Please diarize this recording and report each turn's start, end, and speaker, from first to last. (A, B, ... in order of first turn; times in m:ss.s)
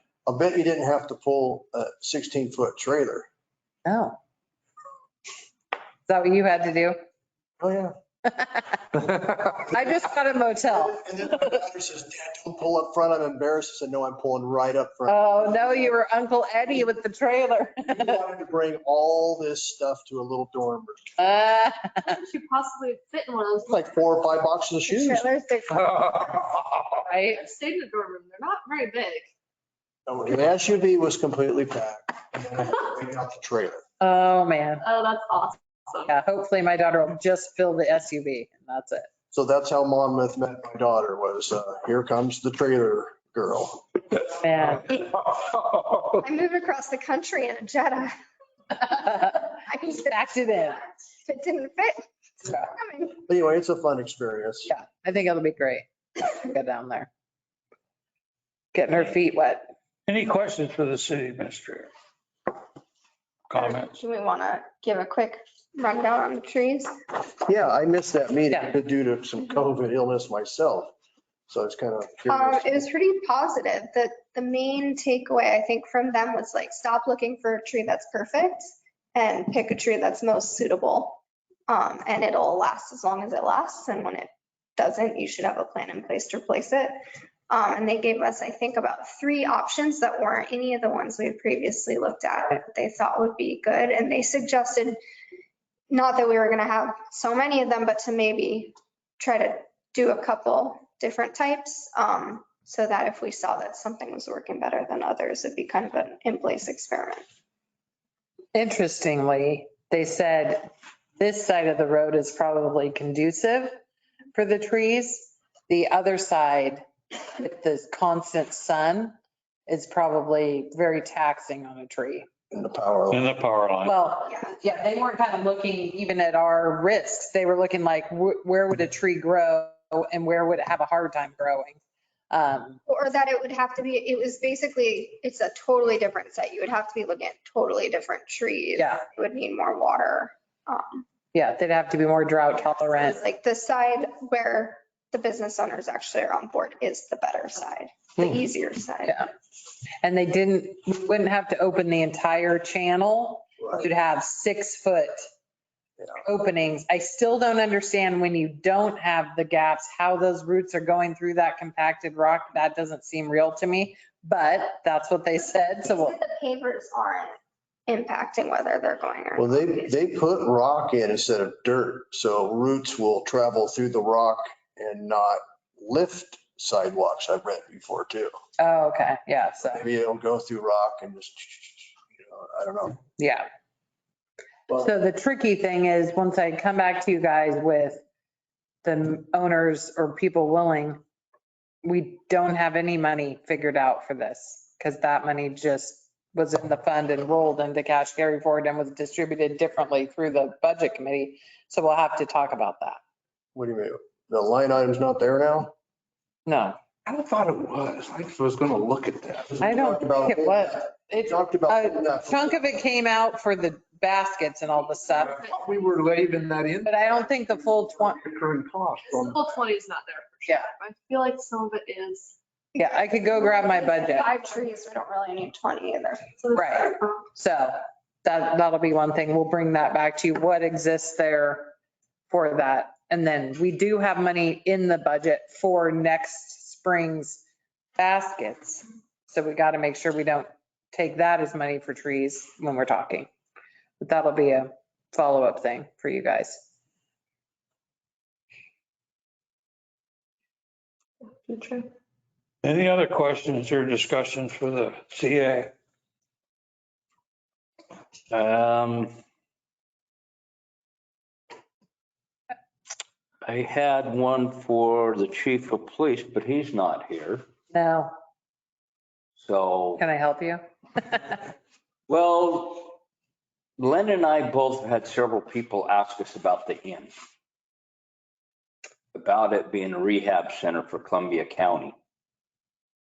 0:00.3-0:03.3 A
0:03.8-0:04.2 B
0:06.1-0:07.0 B
0:07.6-0:08.0 A
0:09.4-0:09.8 A
0:09.5-0:11.0 B
0:10.7-0:15.7 A
0:15.1-0:18.1 B
0:17.9-0:21.1 A
0:21.2-0:22.1 B
0:22.0-0:24.0 C
0:23.7-0:25.2 A
0:24.9-0:26.4 D
0:27.0-0:27.4 B
0:27.3-0:29.3 C
0:30.1-0:33.8 A
0:34.0-0:34.8 B
0:34.8-0:36.1 C
0:36.1-0:39.1 B
0:39.3-0:43.8 A
0:44.4-0:45.0 B
0:46.2-0:48.1 D
0:48.9-0:50.8 B
0:49.7-0:50.2 D
0:51.2-0:53.2 D
0:53.2-0:54.7 A
0:54.7-0:57.1 B
0:58.7-0:59.7 B
1:00.1-1:01.9 E
1:03.5-1:03.9 E
1:03.6-1:06.9 D
1:07.4-1:10.9 A
1:11.5-1:12.8 A
1:12.3-1:27.0 D
1:27.5-1:35.0 D
1:35.9-1:47.2 D
1:48.5-1:53.8 B
1:54.3-1:59.1 B
1:59.7-2:02.2 B
2:02.5-2:03.3 A
2:03.1-2:04.0 E
2:03.8-2:11.8 B
2:12.3-2:12.8 B
2:12.9-2:21.0 D
2:18.8-2:19.0 B
2:21.3-2:23.2 B
2:23.0-2:29.2 D
2:30.0-2:35.2 B
2:36.2-2:46.2 B
2:45.8-2:47.3 D
2:47.9-2:49.9 D
2:49.4-2:58.3 A
2:58.6-2:59.8 B
2:59.7-3:03.0 A
3:03.2-3:03.5 B
3:04.7-3:08.0 B
3:08.8-3:11.0 B
3:11.8-3:23.0 B
3:23.5-3:25.7 A
3:26.5-3:26.8 B
3:27.1-3:29.5 F
3:29.5-3:32.6 A
3:29.6-3:35.4 B
3:35.4-3:37.3 F
3:36.8-3:38.2 B
3:37.9-3:39.6 F
3:39.1-3:42.3 C
3:42.8-3:44.3 B
3:42.8-3:46.4 D
3:46.5-3:51.7 B
3:52.3-3:57.4 B
3:58.0-4:03.3 B
4:04.0-4:06.6 B
4:11.5-4:11.8 C
4:12.6-4:15.7 E
4:18.3-4:19.1 G
4:23.4-4:27.4 G
4:27.7-4:28.1 B
4:29.4-4:30.0 G
4:30.0-4:31.4 B
4:32.1-4:33.0 G
4:33.8-4:37.1 G
4:39.1-4:42.0 G